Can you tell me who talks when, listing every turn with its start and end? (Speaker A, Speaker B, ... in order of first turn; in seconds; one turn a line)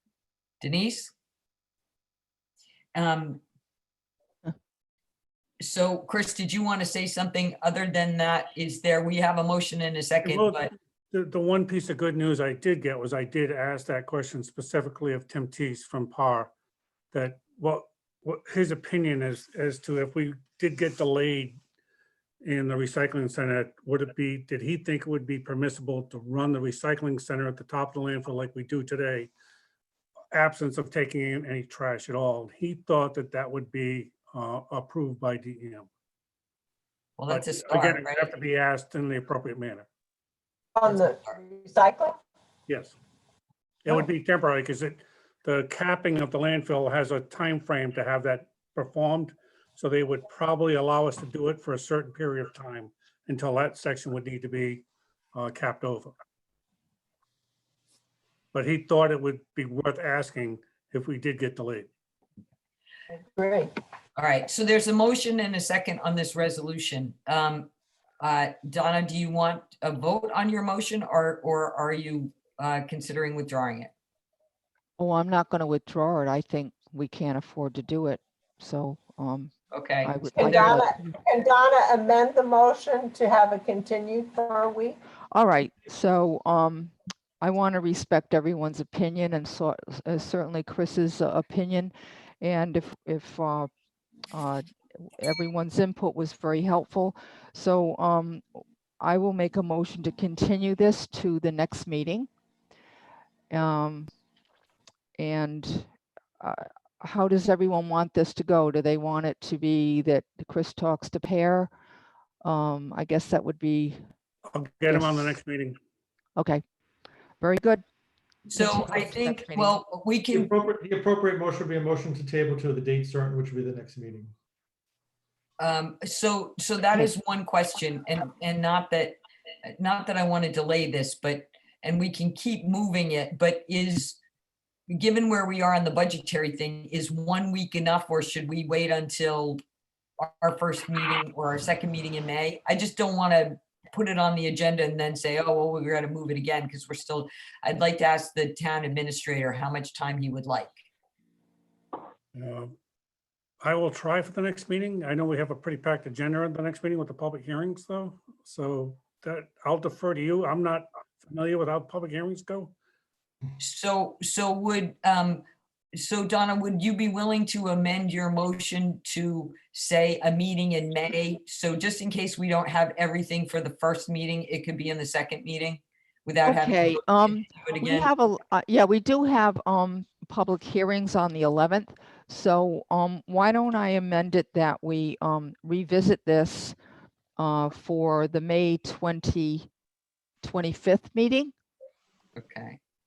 Speaker A: 0.6-1.1
Speaker A: 2.9-3.4
Speaker A: 5.6-10.7
Speaker B: 10.2-16.5
Speaker B: 17.1-21.6
Speaker B: 22.4-29.3
Speaker B: 30.3-35.9
Speaker A: 37.2-38.3
Speaker B: 37.3-39.9
Speaker C: 40.8-42.1
Speaker A: 40.9-41.4
Speaker B: 42.7-42.9
Speaker B: 43.8-56.1
Speaker B: 58.5-61.9
Speaker C: 63.1-63.7
Speaker A: 64.2-67.7
Speaker A: 68.2-73.9
Speaker D: 75.0-79.5
Speaker A: 79.7-80.8
Speaker D: 80.0-81.0
Speaker C: 80.4-85.0
Speaker D: 85.3-93.7
Speaker D: 94.3-94.6
Speaker D: 95.2-102.3
Speaker D: 103.5-104.1
Speaker D: 105.2-111.7
Speaker D: 112.4-114.0
Speaker B: 114.5-115.8
Speaker D: 114.9-115.4
Speaker D: 116.3-116.6
Speaker D: 117.4-117.8
Speaker D: 118.5-119.8
Speaker A: 118.5-120.5
Speaker E: 120.3-124.3
Speaker A: 125.6-134.2
Speaker A: 134.9-139.6
Speaker A: 140.2-150.7
Speaker B: 152.3-152.7
Speaker B: 153.6-162.7
Speaker A: 163.6-165.4
Speaker A: 165.9-178.1
Speaker D: 176.4-186.7
Speaker D: 187.4-189.7
Speaker D: 190.4-191.5
Speaker A: 192.3-192.8